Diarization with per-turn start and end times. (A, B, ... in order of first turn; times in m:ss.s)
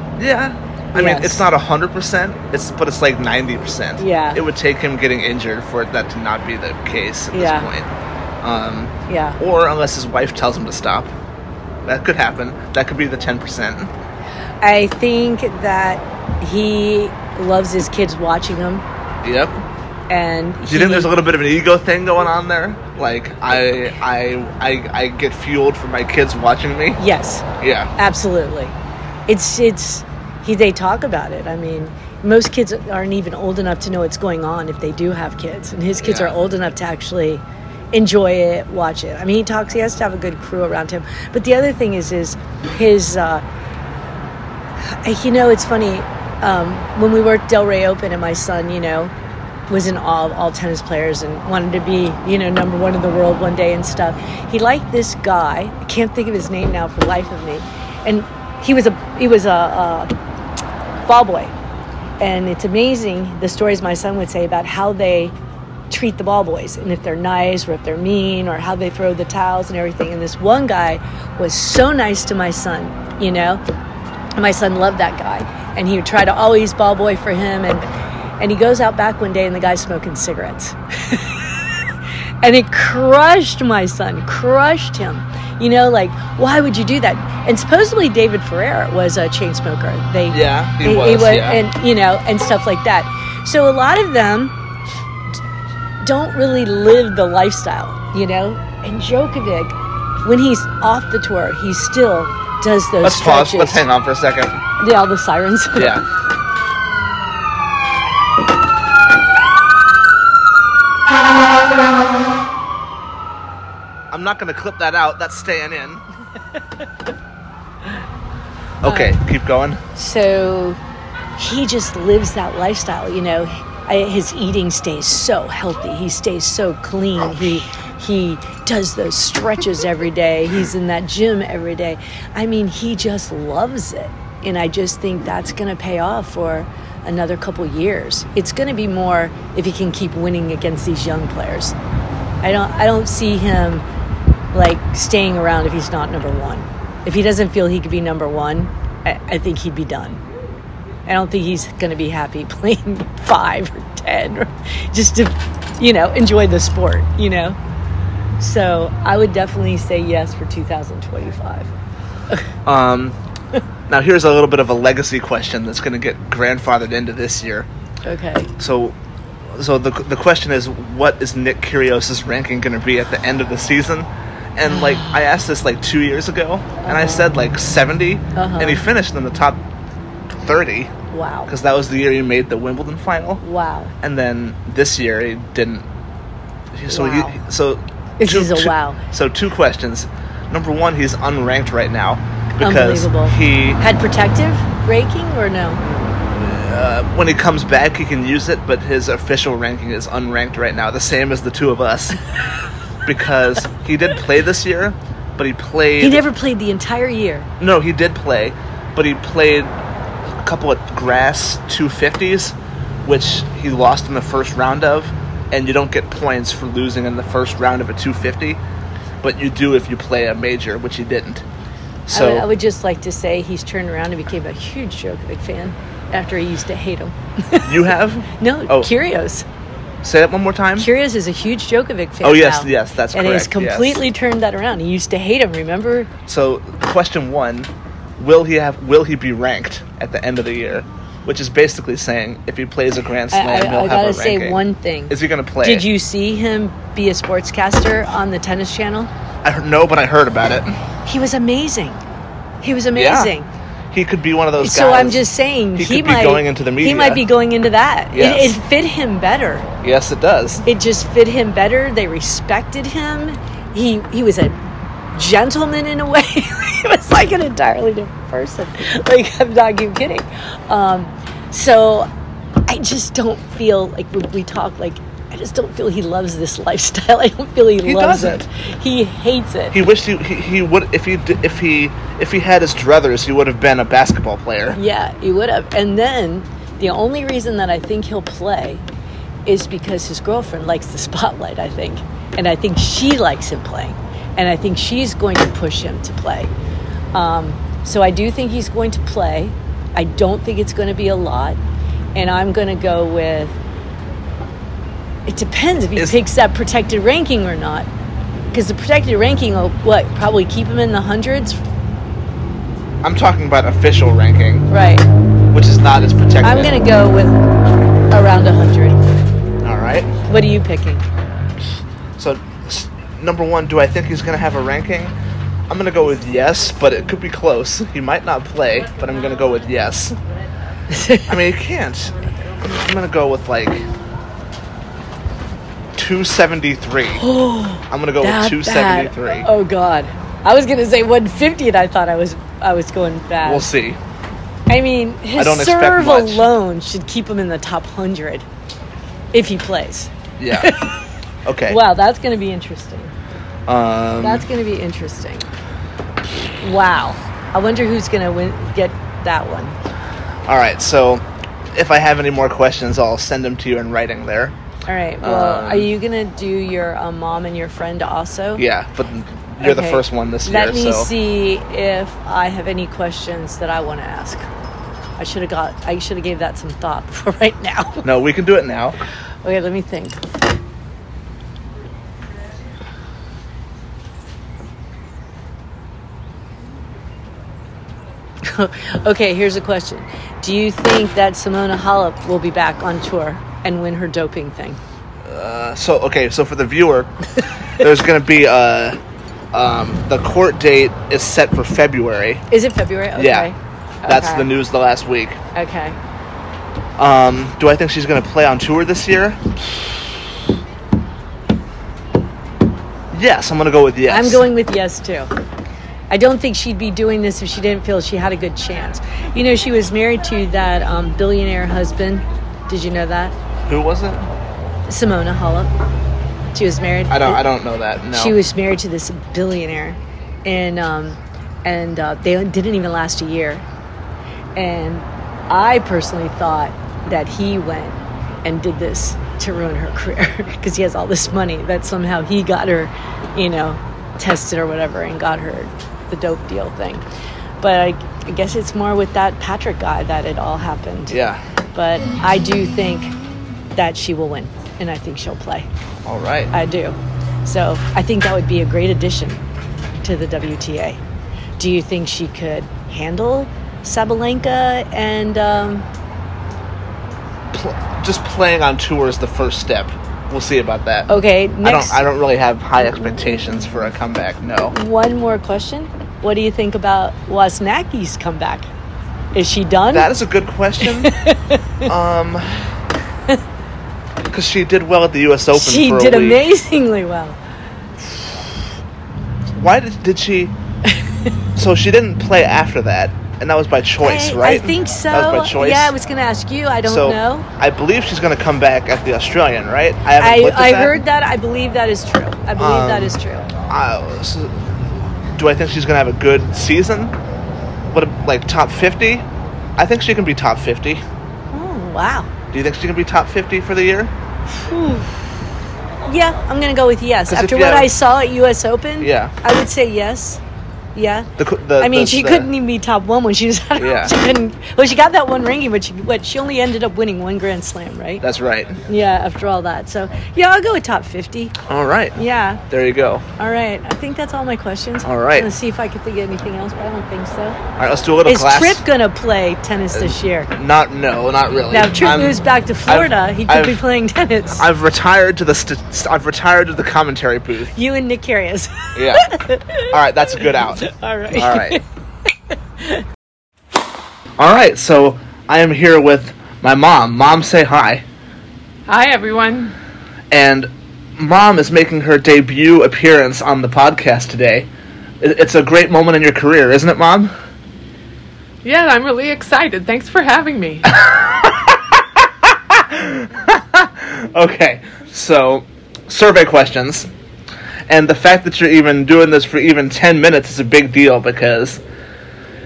0:00.2-0:07.9 A
0:00.9-0:01.4 B
0:04.0-0:04.4 B
0:07.3-0:07.7 B
0:08.4-0:11.1 A
0:09.1-0:09.4 B
0:11.8-0:13.9 A
0:14.6-0:18.8 B
0:19.2-0:19.6 A
0:20.1-0:21.1 B
0:20.7-0:27.0 A
0:27.0-0:27.4 B
0:27.6-0:27.9 A
0:28.0-0:28.7 B
0:29.3-0:43.4 B
0:36.0-0:36.4 A
0:45.0-0:49.1 B
0:49.7-1:00.1 B
1:01.0-1:01.5 B
1:02.2-1:05.3 B
1:05.9-1:13.6 B
1:14.4-1:17.8 B
1:18.4-1:21.6 B
1:22.4-1:34.5 B
1:30.3-1:31.6 A
1:36.0-1:43.8 B
1:43.0-1:44.6 A
1:44.8-1:46.0 B
1:45.8-1:46.0 A
1:54.1-1:56.0 A
1:58.8-1:59.8 A
1:58.8-1:59.2 B
1:59.9-2:00.8 B
2:01.4-2:21.7 B
2:22.4-2:23.8 B
2:24.5-2:30.2 B
2:31.1-2:37.6 B
2:38.4-2:41.7 B
2:42.6-2:43.2 A
2:43.9-2:47.7 A
2:48.0-2:48.5 B
2:48.6-2:49.0 A
2:49.5-2:59.6 A
2:56.8-2:57.2 B
2:58.3-2:58.8 B
3:00.3-3:00.9 A
3:01.1-3:01.5 B
3:01.5-3:03.4 A
3:03.4-3:03.9 B
3:04.0-3:05.8 A
3:06.7-3:13.8 A
3:06.9-3:07.4 B
3:08.2-3:09.0 B
3:12.5-3:15.8 B
3:16.3-3:22.2 A
3:23.0-3:26.2 A
3:26.0-3:27.5 B
3:27.6-3:29.7 A
3:30.4-3:38.6 A
3:39.2-3:41.4 A
3:42.1-3:42.5 A
3:42.1-3:47.8 B
3:47.6-3:48.9 A
3:48.4-3:49.4 B
3:50.0-3:50.9 A
3:50.8-3:56.1 B
3:52.2-3:54.0 A
3:56.3-4:05.9 A
4:03.3-4:09.1 B
4:09.4-4:10.8 A
4:11.0-4:12.0 B
4:12.6-4:13.5 B
4:12.9-4:13.3 A
4:13.9-4:15.2 A
4:14.6-4:19.7 B
4:15.8-4:17.2 A
4:18.1-4:18.6 A
4:19.8-4:20.6 A
4:20.6-4:24.6 B
4:25.1-4:32.1 B
4:32.6-4:39.8 B
4:37.8-4:38.4 A
4:39.7-4:44.8 A
4:44.7-4:48.8 B
4:49.4-4:56.5 B
4:57.1-5:01.6 B
5:02.1-5:03.6 B
5:05.3-5:07.9 B
5:08.5-5:11.6 B
5:13.0-5:14.7 A
5:14.7-5:15.1 B
5:15.5-5:16.8 A
5:16.4-5:17.4 B
5:18.1-5:19.0 B
5:19.6-5:20.1 A
5:20.3-5:21.0 B
5:22.2-5:25.1 A
5:25.7-5:30.2 A
5:30.9-5:31.3 B
5:31.3-5:33.8 A
5:36.0-5:37.2 A
5:37.1-5:43.7 B
5:37.9-5:39.5 A
5:43.4-5:44.0 A
5:44.7-5:48.4 B
5:45.4-5:46.5 A
5:49.3-5:51.0 B
5:50.4-5:50.7 A
5:51.4-5:51.8 A
5:51.7-5:53.1 B
5:53.7-5:54.5 A
5:54.2-5:55.5 B
5:56.6-5:59.8 B
6:00.4-6:04.6 A
6:04.9-6:08.6 B
6:05.2-6:05.9 A
6:08.6-6:11.1 A
6:09.6-6:14.4 B
6:15.2-6:18.0 B
6:18.0-6:19.0 A
6:19.4-6:20.2 B
6:28.4-6:34.8 B
6:35.2-6:37.1 A
6:37.8-6:39.0 A
6:39.5-6:42.4 A
6:42.5-6:44.5 B
6:43.1-6:43.5 A
6:44.0-6:45.4 A
6:45.5-6:46.0 B
6:47.0-6:49.4 A
6:53.1-6:54.4 A
6:54.1-6:55.3 B
6:56.1-7:03.3 B
7:03.7-7:04.3 A
7:04.9-7:05.7 B
7:06.5-7:07.4 B
7:07.1-7:08.4 A
7:08.1-7:13.6 B
7:14.6-7:27.0 B
7:27.6-7:31.2 B
7:31.1-7:31.4 A
7:31.7-7:33.1 B
7:33.7-7:35.7 B
7:36.0-7:36.5 A
7:36.5-7:39.4 B
7:40.0-7:41.0 B
7:41.6-7:45.8 B
7:47.5-7:51.1 A
7:51.1-7:52.0 B
7:51.6-7:54.8 A
7:54.7-7:58.7 B
7:59.3-8:00.1 B
7:59.9-8:01.1 A
8:00.8-8:01.9 B
8:01.8-8:02.6 A
8:04.3-8:06.4 A
8:05.5-8:07.4 B
8:09.5-8:10.5 A
8:11.6-8:15.9 A
8:14.0-8:17.5 B
8:16.8-8:21.0 A
8:20.2-8:23.5 B
8:22.6-8:23.2 A
8:23.7-8:24.7 A
8:25.4-8:27.1 A
8:27.9-8:29.2 A
8:29.8-8:31.0 A
8:31.5-8:32.3 B
8:32.5-8:34.1 A
8:34.6-8:35.1 B
8:36.0-8:40.4 B
8:37.3-8:37.9 A
8:39.0-8:39.3 A
8:40.9-8:48.2 B
8:41.4-8:42.5 A
8:43.8-8:44.1 A
8:48.2-8:48.8 A
8:48.9-8:51.5 B
8:51.7-8:53.2 A
8:52.2-8:52.6 B
8:53.4-8:57.6 B
8:55.0-8:55.5 A
8:57.8-8:58.8 A
8:58.2-9:00.5 B
9:00.5-9:03.8 A
9:01.7-9:04.6 B
9:04.6-9:07.7 A
9:07.7-9:11.8 B
9:08.9-9:09.2 A
9:09.9-9:11.8 A
9:14.4-9:18.0 A
9:18.9-9:19.7 C
9:20.3-9:24.7 A
9:25.2-9:27.3 A
9:28.6-9:30.9 C
9:30.8-9:37.1 A
9:37.9-9:41.8 A